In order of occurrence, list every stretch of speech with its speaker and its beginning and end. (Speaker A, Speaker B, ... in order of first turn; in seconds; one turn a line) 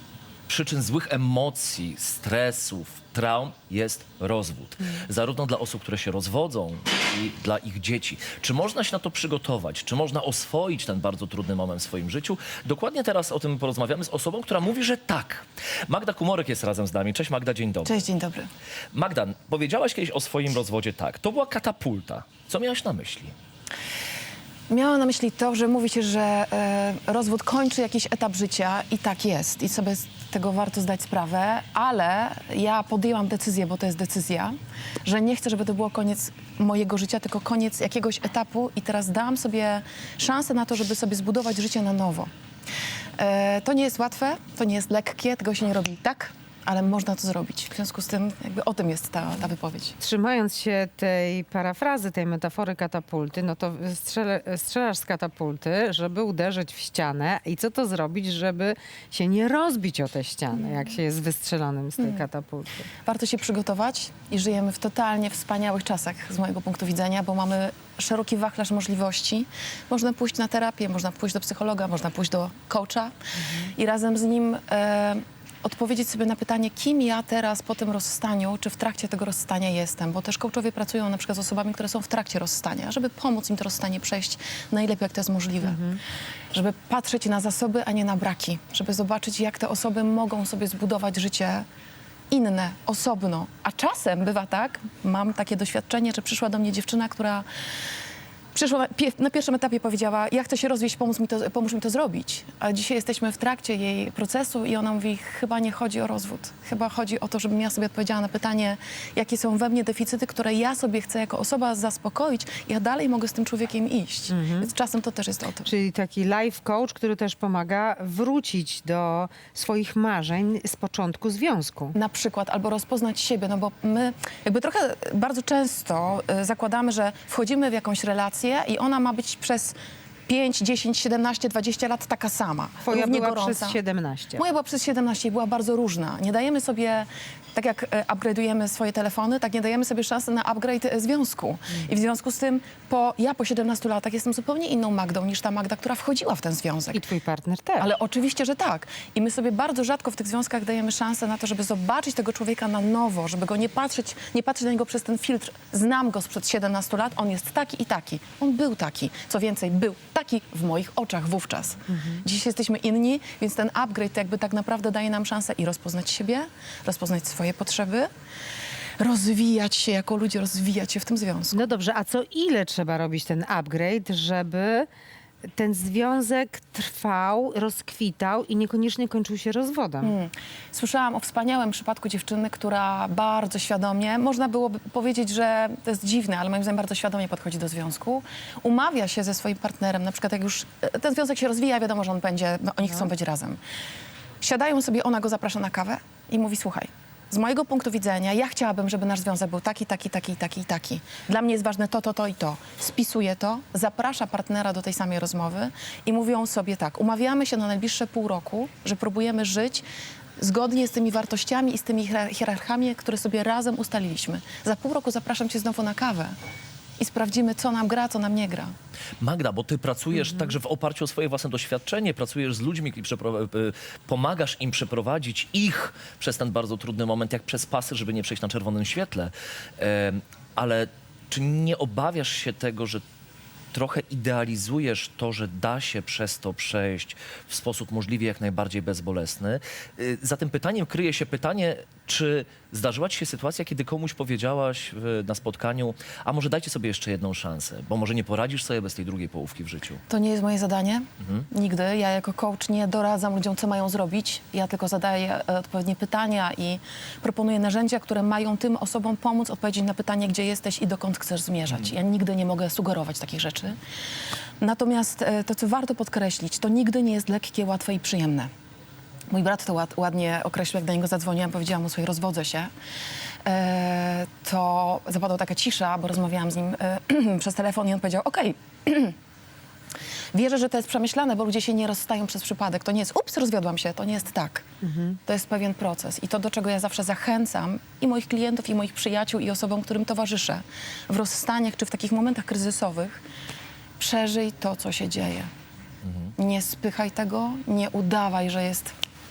Speaker A: 0.5-18.0
Speaker B: 17.8-18.5
Speaker A: 18.9-23.3
Speaker B: 24.7-42.3
Speaker B: 43.2-49.9
Speaker C: 50.0-62.8
Speaker B: 60.5-60.9
Speaker B: 62.0-62.2
Speaker B: 63.0-73.1
Speaker B: 73.7-85.8
Speaker C: 85.6-86.0
Speaker B: 86.5-91.7
Speaker B: 92.3-97.4
Speaker B: 98.5-115.7
Speaker C: 114.3-114.7
Speaker C: 115.6-121.9
Speaker B: 121.9-129.8
Speaker B: 130.3-133.8
Speaker C: 132.8-134.4
Speaker B: 134.3-147.0
Speaker C: 146.9-147.9
Speaker B: 147.8-168.1
Speaker C: 161.9-162.2
Speaker B: 169.0-171.6
Speaker C: 171.5-174.9
Speaker C: 175.6-180.1
Speaker B: 180.0-193.6
Speaker B: 194.4-209.8
Speaker B: 210.4-216.3
Speaker B: 217.0-218.7
Speaker A: 219.2-233.0
Speaker A: 233.7-250.0
Speaker B: 250.1-263.8
Speaker B: 264.6-268.5
Speaker B: 269.3-272.7
Speaker B: 273.4-279.1
Speaker B: 280.3-284.6
Speaker C: 284.8-285.2
Speaker B: 285.2-293.2
Speaker B: 294.0-295.5
Speaker A: 296.1-296.3
Speaker B: 296.4-298.9